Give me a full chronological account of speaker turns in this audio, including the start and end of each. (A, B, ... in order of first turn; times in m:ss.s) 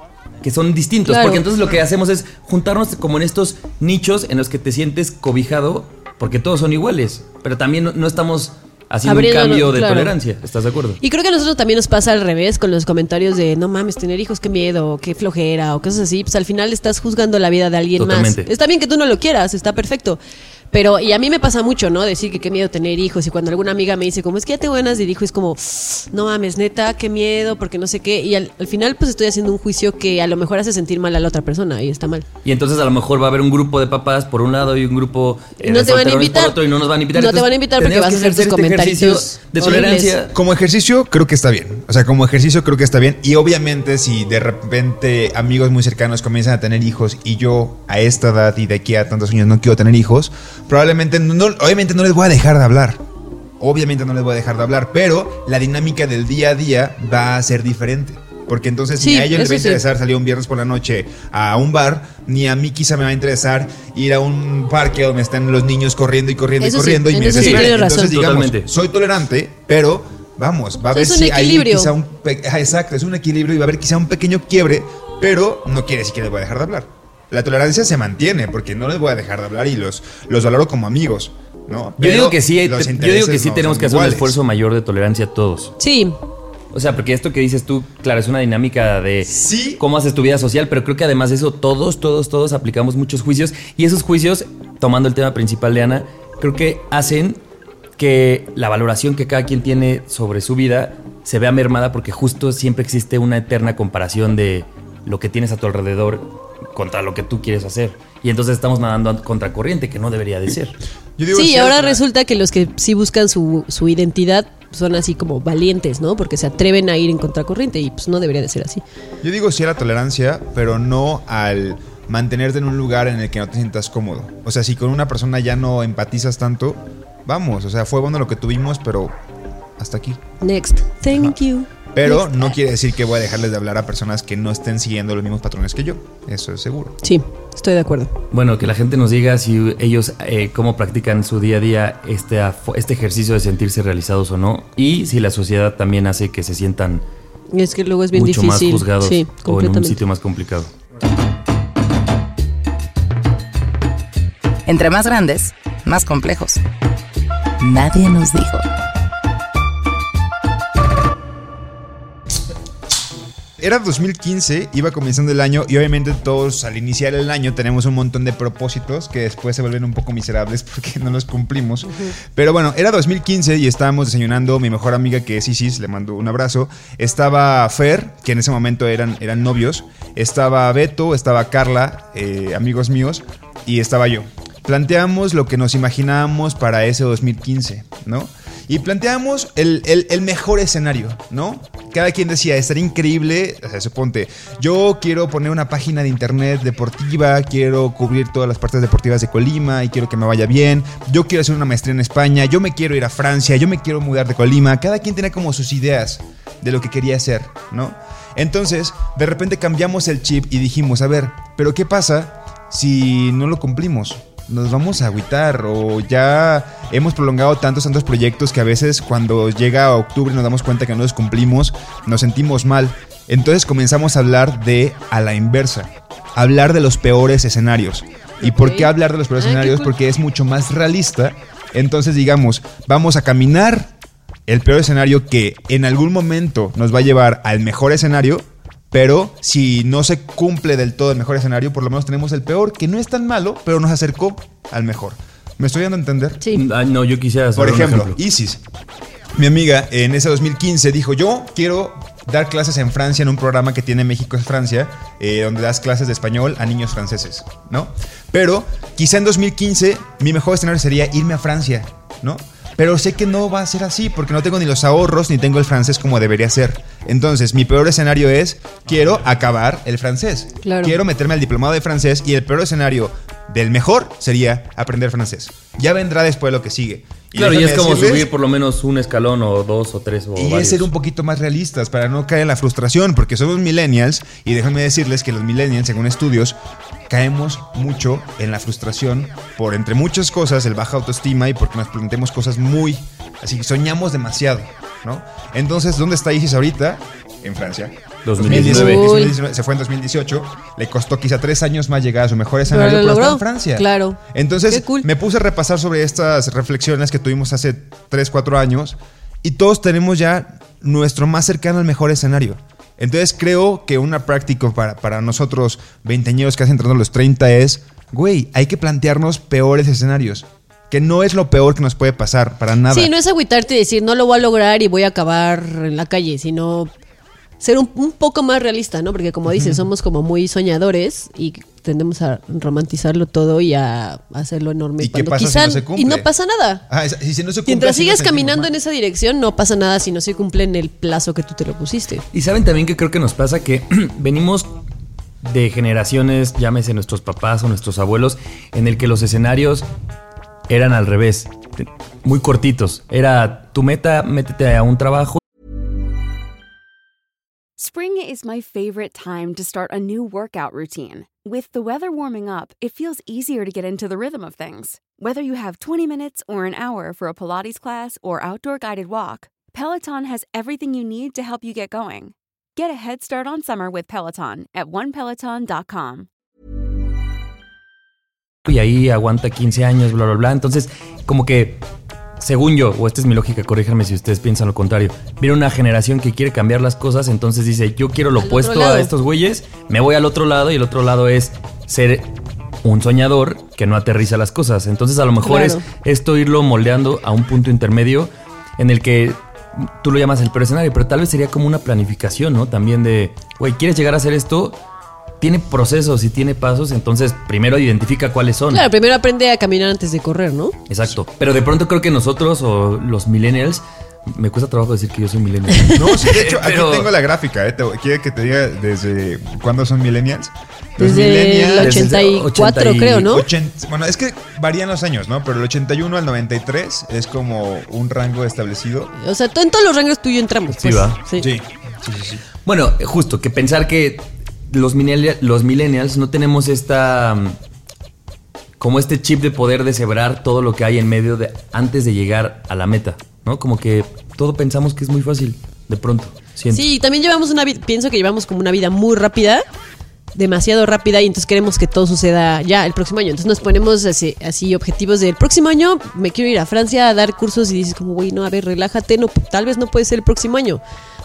0:00.4-0:11.0 A
0:01.1-0:01.4 B
0:09.1-0:10.2 B
0:11.0-0:20.2 B
0:18.0-0:18.5 A
0:20.7-0:32.3 B
0:32.4-0:40.3 A
0:35.6-0:36.6 B
0:37.1-0:40.1 B
0:40.3-0:53.0 C
0:53.6-1:24.4 C
0:59.0-0:59.8 B
1:06.6-1:08.2 B
1:07.4-1:08.7 A
1:10.9-1:11.9 B
1:22.0-1:25.7 A
1:25.8-1:26.2 B
1:26.7-1:37.4 A
1:29.3-1:29.8 C
1:38.0-1:50.8 A
1:51.2-1:52.0 C
1:51.3-1:58.8 B
1:59.2-2:09.2 C
2:09.8-2:10.2 C
2:10.4-2:12.6 B
2:11.1-2:11.4 C
2:11.9-2:17.0 C
2:17.0-2:18.1 B
2:18.3-2:27.0 A
2:27.5-2:30.0 B
2:28.1-2:30.7 A
2:34.7-2:36.6 D
2:37.6-2:38.7 D
2:43.6-3:53.9 C
3:48.4-3:49.9 B
3:54.5-4:06.4 C
4:06.5-4:08.2 A
4:07.6-4:08.6 C
4:09.3-4:38.3 C
4:30.6-4:31.0 B
4:37.4-4:40.9 A
4:40.4-4:46.6 C
4:47.1-5:23.1 C
4:58.2-4:59.1 A
4:58.4-4:59.4 B
5:02.7-5:05.1 B
5:22.9-5:26.9 B
5:27.6-5:36.8 B
5:29.5-5:29.9 C
5:35.0-5:36.3 C
5:36.9-5:38.7 C
5:37.7-5:42.2 B
5:42.3-5:44.8 A
5:45.4-5:49.9 A
5:50.7-5:55.4 A
5:57.8-6:16.3 E
6:18.7-6:21.8 A
6:22.4-6:32.3 A
6:28.4-6:29.1 B
6:32.8-6:44.8 A
6:35.4-6:35.8 B
6:45.4-6:48.9 A
6:48.7-6:50.8 B
6:50.9-6:57.1 A
6:55.9-7:02.1 C
7:01.0-7:03.4 B
7:01.8-7:03.3 A
7:03.3-7:09.1 C
7:09.2-7:11.5 B
7:10.7-7:11.2 A
7:11.4-7:12.4 C
7:12.6-7:17.6 A
7:18.8-7:26.8 A
7:26.7-7:29.6 B
7:30.4-7:40.8 B